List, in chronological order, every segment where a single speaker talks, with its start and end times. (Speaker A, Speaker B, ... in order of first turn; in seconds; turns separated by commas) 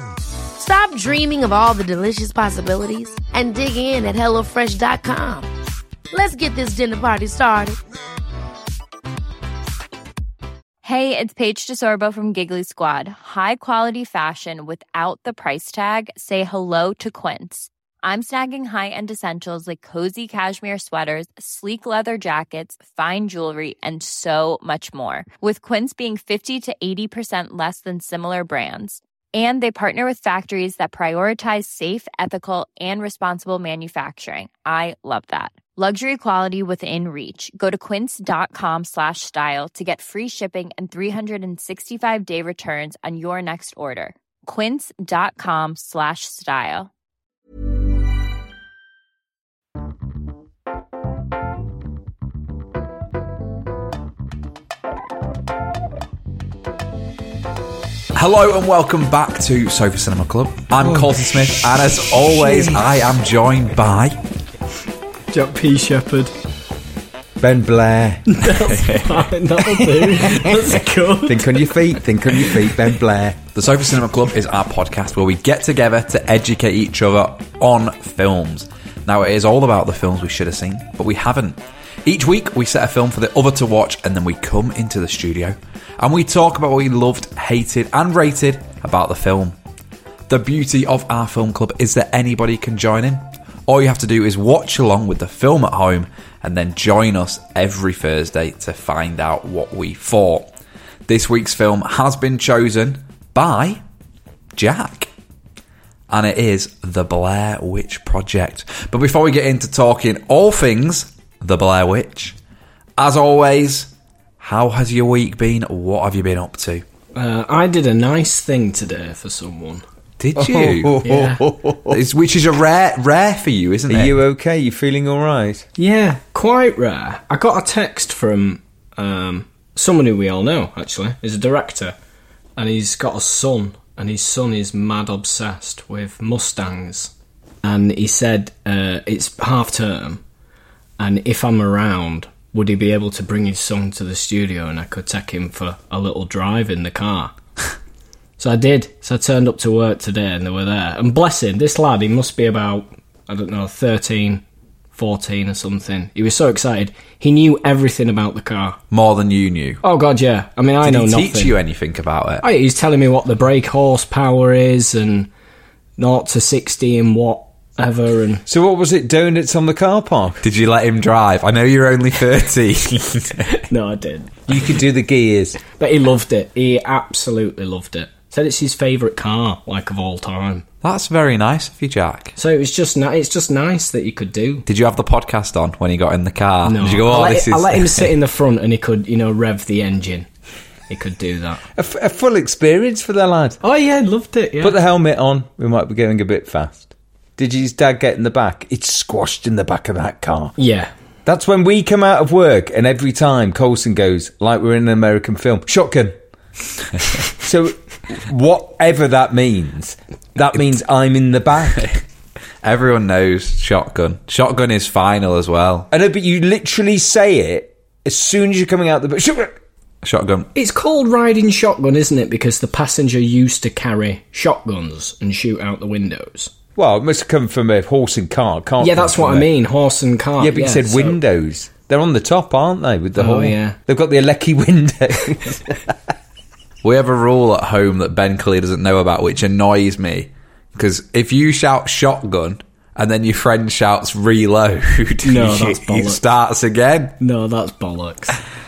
Speaker A: 0.6-5.5, Speaker A: 6.1-7.8, Speaker B: 10.8-46.9, Speaker C: 58.1-64.2, Speaker D: 60.9-61.2, Speaker E: 65.3-66.3, Speaker D: 67.4-68.4, Speaker E: 68.3-72.4, Speaker C: 68.8-69.2, Speaker D: 71.2-73.4, Speaker C: 73.5-89.5, Speaker C: 90.3-100.5, Speaker C: 101.1-103.8, Speaker C: 104.5-105.1, Speaker C: 106.1-112.3, Speaker C: 113.0-116.8, Speaker E: 117.1-119.8, Speaker C: 120.2-121.0, Speaker D: 120.3-122.0, Speaker E: 121.0-121.4, Speaker C: 121.9-124.2, Speaker D: 123.9-125.6, Speaker E: 125.8-131.9, Speaker E: 132.6-137.1, Speaker E: 137.6-140.2, Speaker E: 141.0-147.3, Speaker E: 148.4-154.4, Speaker E: 154.9-158.8, Speaker C: 158.9-159.8, Speaker E: 159.8-161.5, Speaker C: 160.8-162.4, Speaker E: 162.4-165.3, Speaker E: 166.0-168.4, Speaker D: 168.5-170.4, Speaker C: 170.4-173.5, Speaker E: 173.7-174.5, Speaker D: 174.5-175.6, Speaker E: 175.7-180.6, Speaker C: 180.8-182.3, Speaker E: 182.4-184.7, Speaker C: 184.7-188.1, Speaker E: 186.7-190.3, Speaker E: 190.9-191.6, Speaker D: 191.7-193.6, Speaker E: 193.6-194.8, Speaker D: 194.6-200.5, Speaker E: 200.6-200.9, Speaker D: 201.2-206.1, Speaker D: 207.3-211.9, Speaker C: 212.6-215.9, Speaker D: 215.9-219.6, Speaker C: 220.0-220.5, Speaker E: 220.5-226.5, Speaker D: 226.8-229.5, Speaker E: 228.8-231.2, Speaker D: 230.4-235.9, Speaker E: 233.2-233.8, Speaker C: 236.8-247.2, Speaker E: 245.2-246.2, Speaker E: 247.2-248.4